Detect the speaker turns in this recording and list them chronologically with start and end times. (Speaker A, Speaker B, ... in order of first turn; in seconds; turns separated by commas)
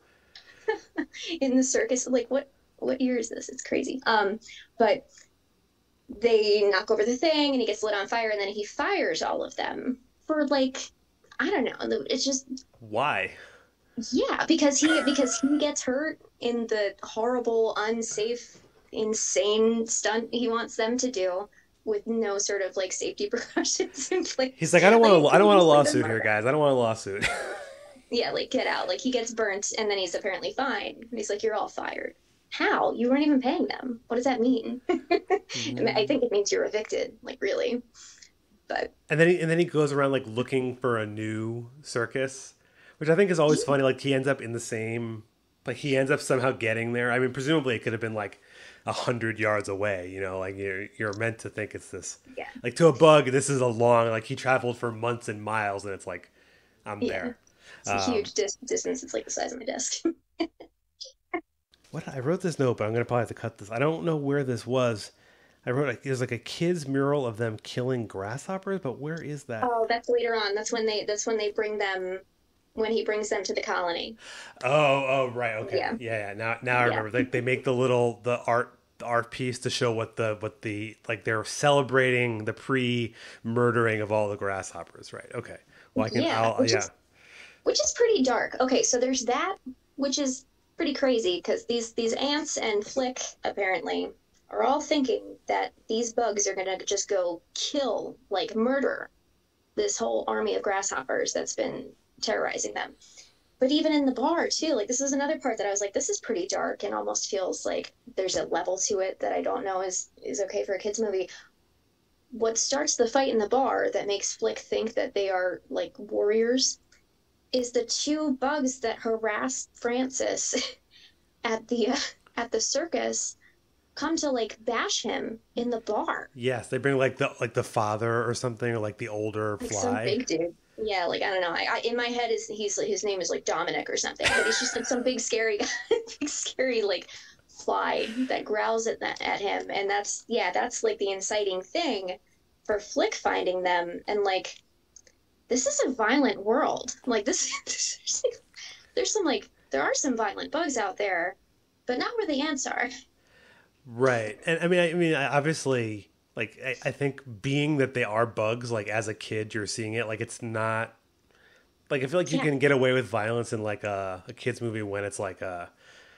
Speaker A: 0.7-5.1, Speaker A: 6.1-12.5, Speaker B: 12.8-13.4, Speaker A: 14.1-26.3, Speaker B: 24.6-27.6, Speaker A: 28.1-37.8, Speaker B: 35.5-36.2, Speaker B: 39.1-56.3, Speaker B: 56.9-58.3, Speaker A: 57.0-57.3, Speaker A: 57.9-60.5, Speaker B: 61.9-65.1, Speaker B: 65.6-69.7, Speaker A: 69.6-72.2, Speaker A: 72.8-74.2, Speaker B: 74.6-86.9, Speaker A: 75.6-76.0, Speaker A: 76.8-77.4, Speaker A: 86.0-86.9, Speaker A: 87.7-99.1, Speaker A: 99.8-103.0, Speaker A: 103.6-111.3, Speaker A: 112.3-116.8, Speaker A: 117.5-120.6, Speaker A: 121.5-123.4, Speaker A: 124.0-126.3, Speaker B: 126.3-130.2, Speaker A: 129.6-144.6, Speaker A: 145.5-148.3, Speaker A: 149.0-152.9, Speaker B: 153.8-161.0, Speaker B: 161.9-165.7